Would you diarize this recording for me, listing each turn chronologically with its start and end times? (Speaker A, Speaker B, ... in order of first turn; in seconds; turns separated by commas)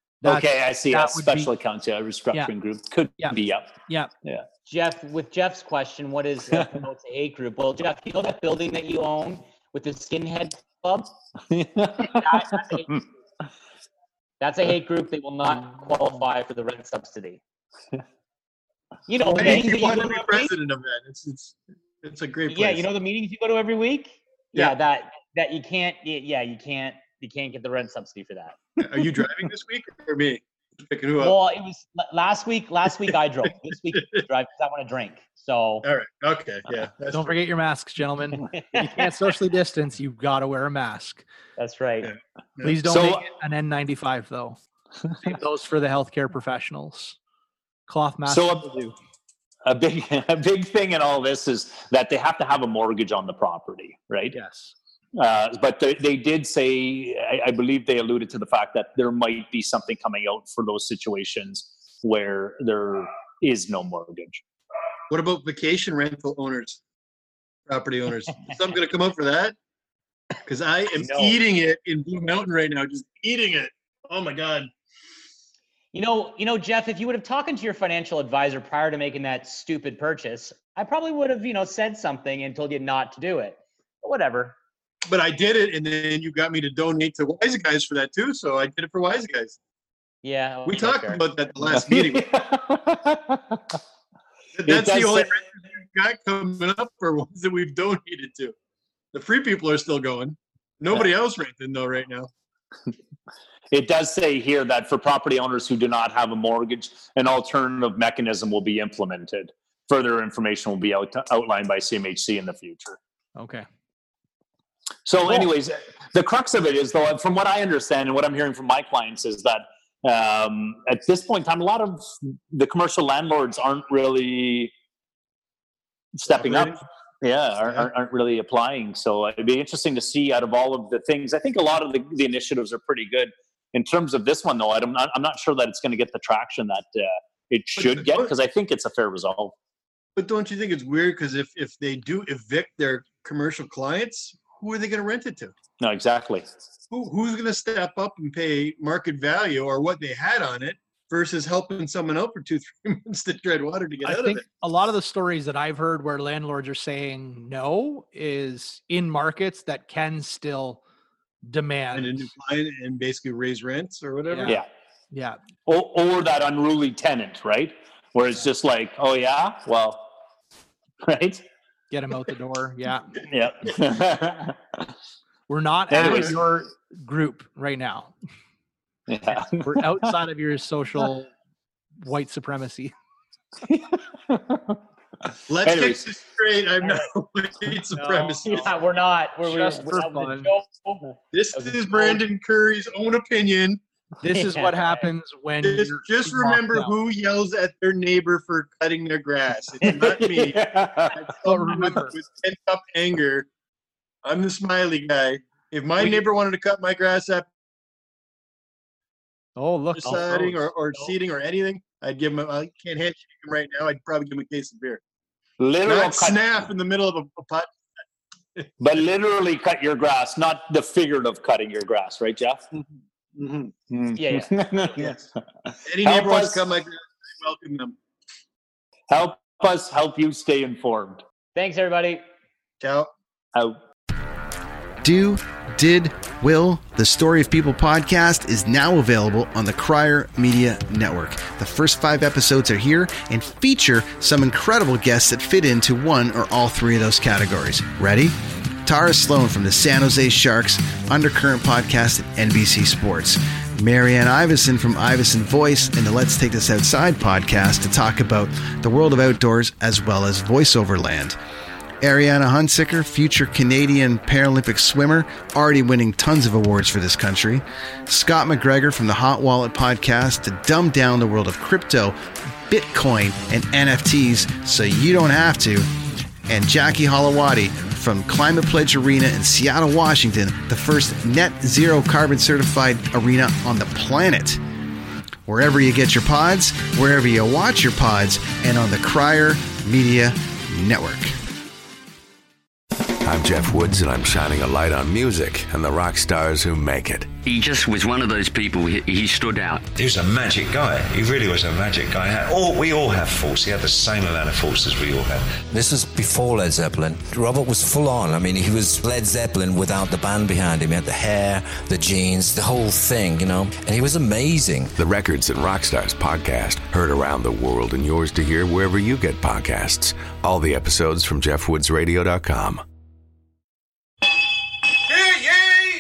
Speaker A: 0.2-1.5, Speaker B: 0.2-4.4, Speaker A: 3.2-4.1, Speaker C: 4.7-11.1, Speaker B: 11.5-12.3, Speaker C: 12.0-12.9, Speaker C: 14.4-17.4, Speaker C: 19.1-20.5, Speaker D: 19.2-22.9, Speaker C: 22.5-28.6, Speaker D: 28.8-31.4, Speaker C: 31.2-35.9, Speaker D: 35.8-37.3, Speaker A: 37.1-41.2, Speaker C: 38.3-39.1, Speaker C: 41.6-42.1, Speaker D: 42.1-42.8, Speaker A: 42.6-44.6, Speaker B: 42.9-43.2, Speaker A: 45.2-47.2, Speaker A: 47.9-48.9, Speaker B: 48.2-48.8, Speaker B: 49.7-54.4, Speaker A: 54.3-54.7, Speaker B: 55.2-64.4, Speaker D: 65.1-66.8, Speaker D: 67.7-69.5, Speaker D: 70.5-74.7, Speaker C: 71.0-71.4, Speaker C: 75.9-84.6, Speaker D: 85.1-89.6, Speaker C: 90.2-91.2, Speaker D: 90.7-92.3, Speaker B: 91.6-93.6, Speaker D: 94.5-98.5, Speaker B: 94.7-95.3, Speaker D: 99.1-102.3, Speaker B: 103.7-113.0, Speaker A: 113.4-113.7, Speaker B: 115.1-124.7, Speaker B: 126.2-139.5, Speaker D: 126.3-126.8, Speaker D: 137.8-138.3, Speaker D: 140.2-145.5, Speaker B: 145.8-146.5, Speaker D: 146.9-154.5, Speaker A: 154.0-160.8, Speaker A: 161.4-162.3, Speaker D: 161.9-164.6, Speaker A: 164.3-164.6, Speaker A: 165.1-165.4, Speaker B: 165.7-170.1, Speaker B: 171.1-171.4, Speaker A: 171.9-173.2, Speaker B: 173.2-174.6, Speaker A: 175.5-178.1, Speaker B: 175.9-176.4, Speaker D: 176.0-176.3, Speaker B: 179.1-180.1, Speaker A: 179.3-181.3, Speaker A: 182.0-182.9, Speaker B: 183.7-184.8, Speaker D: 185.5-188.7, Speaker B: 185.6-186.1, Speaker C: 186.8-187.1, Speaker A: 187.9-188.7, Speaker C: 188.4-192.2, Speaker A: 189.4-190.5, Speaker D: 191.3-193.8, Speaker A: 194.2-196.9, Speaker C: 194.3-195.1, Speaker D: 195.6-203.5, Speaker B: 199.8-201.3, Speaker A: 201.4-202.2, Speaker D: 204.2-207.5, Speaker A: 209.6-210.6, Speaker D: 209.9-215.0, Speaker B: 215.6-216.6, Speaker D: 215.8-217.7, Speaker B: 218.8-222.6, Speaker D: 222.7-223.7, Speaker B: 223.9-226.7, Speaker C: 224.2-225.1, Speaker D: 225.8-228.0, Speaker B: 229.1-231.2, Speaker C: 231.6-232.2, Speaker D: 232.8-233.1, Speaker E: 235.0-248.3, Speaker E: 248.8-261.4, Speaker E: 262.0-272.2, Speaker E: 272.7-275.9, Speaker E: 276.5-284.6, Speaker E: 285.5-291.3, Speaker F: 293.2-297.3, Speaker G: 297.4-299.8, Speaker H: 299.9-305.5, Speaker I: 305.7-314.9, Speaker F: 315.0-322.8, Speaker F: 325.2-325.7